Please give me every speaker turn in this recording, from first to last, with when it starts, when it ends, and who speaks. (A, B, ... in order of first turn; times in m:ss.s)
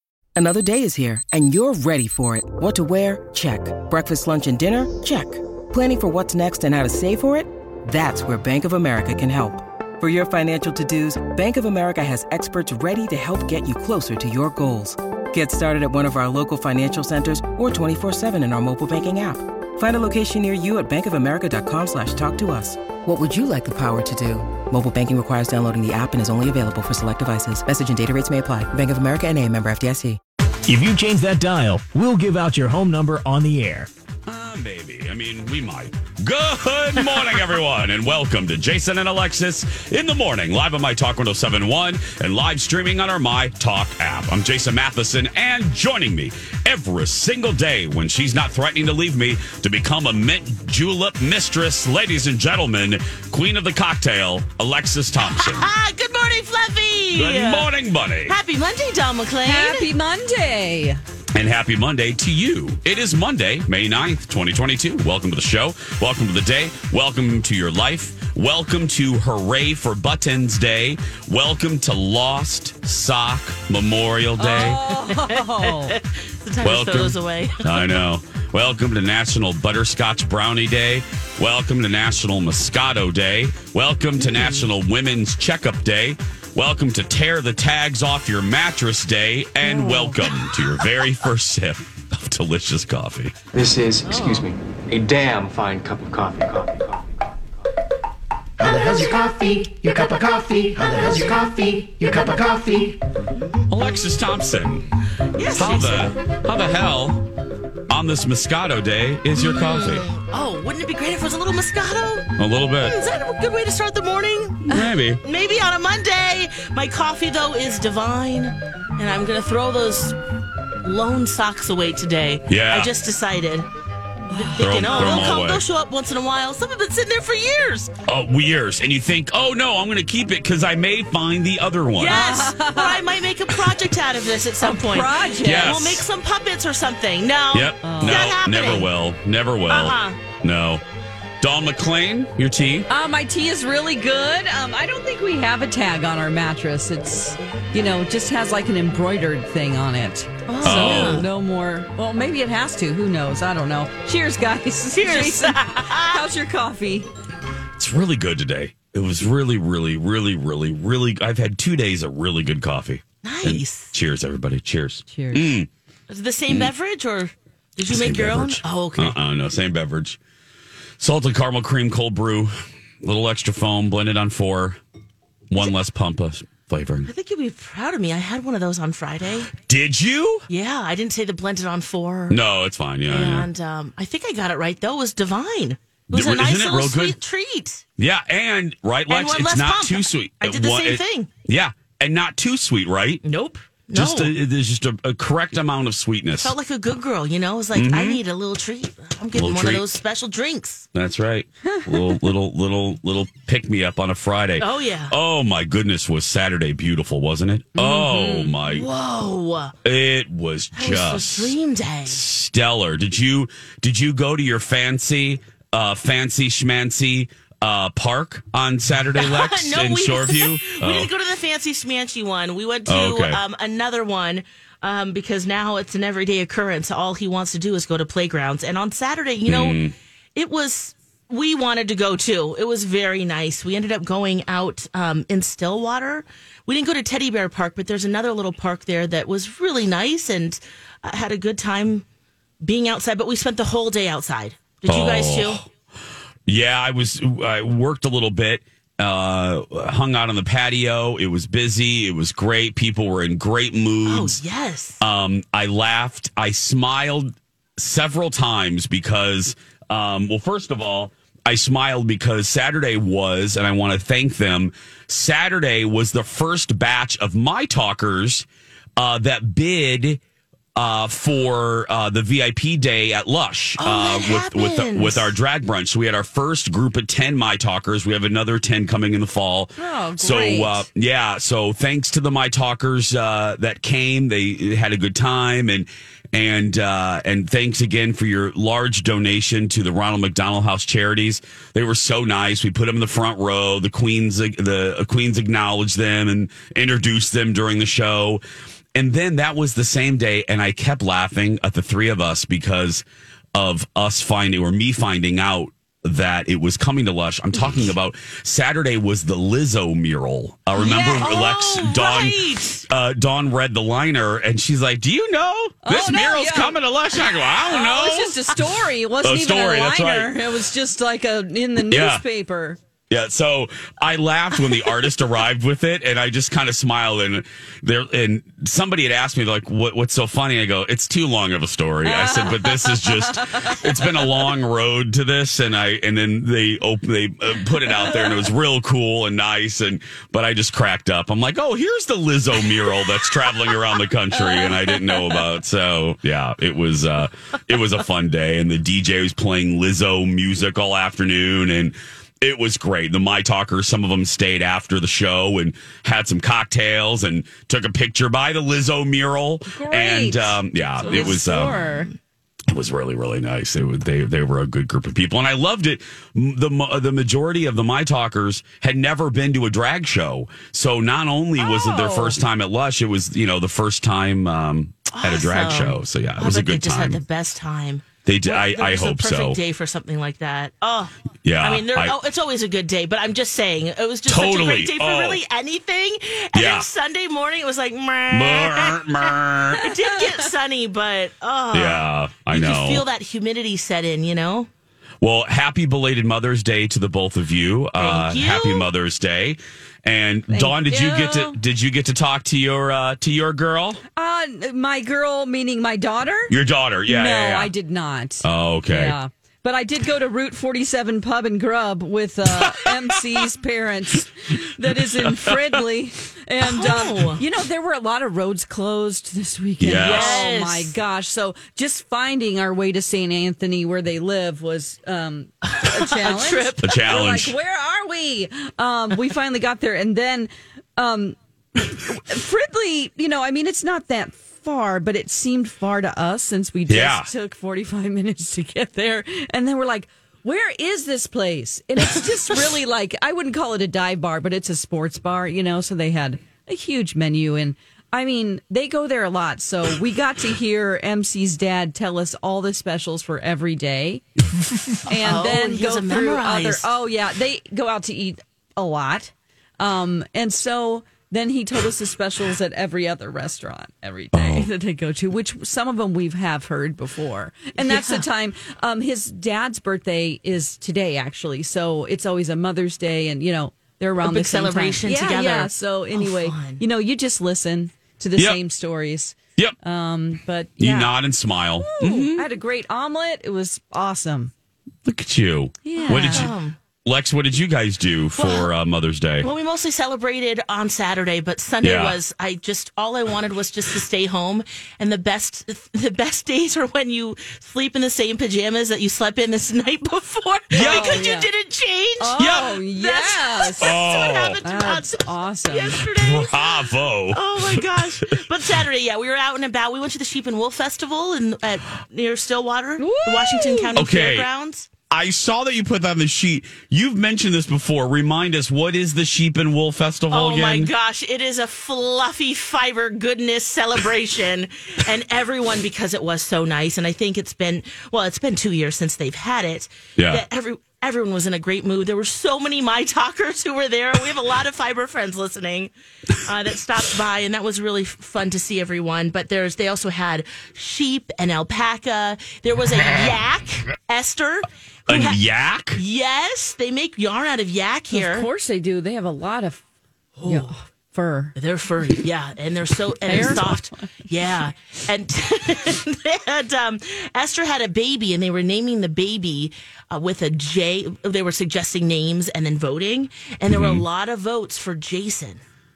0:00.4-0:30.2 A
0:30.7-0:33.9 B
0:34.3-0:55.7 C
0:55.2-0:57.7 D
0:57.1-0:58.4 C
0:58.3-0:59.9 D
0:59.4-1:01.0 E
1:01.4-1:14.8 C
1:14.4-1:16.0 E
1:14.6-1:17.9 D
1:16.6-1:33.4 C
1:24.2-1:24.6 D
1:29.6-1:30.2 E
1:33.5-1:37.4 F
1:34.0-1:34.5 D
1:38.6-1:43.0 G
1:43.7-1:44.8 C
1:45.4-1:46.1 D
1:45.5-1:47.2 C
1:47.9-1:50.1 C
1:49.4-1:52.3 D
1:52.4-1:53.0 C
1:52.8-2:00.2 D
1:54.7-1:55.2 C
2:00.8-2:03.7 D
2:02.5-2:02.9 C
2:04.3-2:04.6 E
2:04.3-2:07.9 D
2:04.6-2:05.6 C
2:08.1-2:12.3 C
2:12.0-2:18.9 D
2:12.0-2:13.0 E
2:14.6-2:15.8 E
2:15.4-2:16.0 C
2:17.5-2:20.8 C
2:17.8-2:18.3 E
2:19.7-2:20.2 D
2:21.4-2:22.9 C
2:22.9-2:37.1 E
2:30.5-2:31.3 D
2:30.6-2:31.3 C
2:34.9-2:36.3 D
2:37.8-2:45.7 C
2:43.2-2:43.9 D
2:45.1-2:45.6 E
2:46.1-2:49.2 D
2:47.9-2:50.2 C
2:51.0-2:54.8 C
2:55.5-2:57.1 C
2:57.1-2:59.5 D
2:59.6-3:00.5 C
3:00.5-3:02.4 D
3:02.3-3:03.5 C
3:03.1-3:07.8 D
3:06.1-3:07.2 C
3:08.0-3:13.2 C
3:09.1-3:11.3 D
3:13.2-3:14.4 D
3:13.9-3:16.5 C
3:16.4-3:20.9 D
3:17.7-3:18.2 C
3:19.4-3:19.9 C
3:20.9-3:28.9 C
3:21.6-3:22.3 E
3:24.6-3:25.2 D
3:27.8-3:28.6 E
3:28.7-3:29.8 D
3:29.8-3:31.6 C
3:30.8-3:32.2 D
3:32.1-3:41.1 C
3:39.2-3:49.8 D
3:42.9-3:43.4 C
3:49.5-3:49.9 C
3:50.4-4:02.0 D
4:02.6-4:05.6 D
4:04.9-4:05.7 C
4:06.5-4:14.4 C
4:14.0-4:15.0 D
4:15.0-4:28.5 C
4:29.0-4:30.2 C
4:30.8-4:58.4 C
4:33.8-4:35.3 D
4:39.8-4:40.9 E
4:59.0-5:03.0 C
5:03.6-5:20.4 C
5:10.8-5:12.9 D
5:15.8-5:16.8 E
5:17.7-5:22.8 E
5:21.9-5:22.2 C
5:23.1-6:01.8 C
5:32.0-5:34.3 E
5:38.0-5:38.3 E
5:59.7-6:02.1 E
6:01.0-6:02.0 D
6:02.7-6:17.2 C
6:11.6-6:12.4 E
6:15.1-6:34.7 D
6:18.2-6:19.6 C
6:21.4-6:22.2 C
6:24.3-6:25.4 C
6:26.5-6:26.9 C
6:28.3-6:29.8 C
6:31.7-6:33.1 C
6:35.2-6:44.0 C
6:38.0-6:38.9 D
6:40.5-6:41.6 E
6:44.2-6:46.5 E
6:46.5-6:47.7 C
6:47.1-7:11.4 E
6:48.4-6:49.2 C
6:55.0-6:55.6 C
6:56.6-6:57.4 D
6:59.8-7:00.5 C
7:00.0-7:01.0 D
7:05.7-7:07.0 D
7:06.8-7:07.6 C
7:11.9-7:34.2 E
7:16.9-7:17.3 C
7:35.0-8:01.2 E
7:35.2-7:36.9 D
7:44.3-7:44.7 C
7:47.8-7:48.2 D
7:54.2-7:56.8 D
8:00.8-8:02.5 C
8:02.0-8:02.4 D
8:02.0-8:04.5 E
8:05.0-8:09.5 C
8:05.8-8:06.5 E
8:06.1-8:06.8 D
8:08.4-8:08.7 D
8:09.4-8:34.9 D
8:11.8-8:12.2 C
8:20.7-8:21.2 C
8:20.7-8:21.5 E
8:22.2-8:24.0 E
8:22.4-8:22.7 C
8:23.8-8:24.6 C
8:24.6-8:26.0 E
8:26.1-8:28.3 C
8:33.0-8:34.0 E
8:34.0-8:34.5 C
8:35.1-8:40.9 C
8:40.3-8:55.9 D
8:50.2-8:50.4 C
8:56.4-9:05.4 D
9:05.1-9:06.0 C
9:06.0-9:08.5 D
9:08.1-9:09.8 E
9:10.4-9:10.7 D
9:10.4-9:11.6 E
9:11.6-9:25.6 D
9:13.3-9:14.1 E
9:23.7-9:24.1 C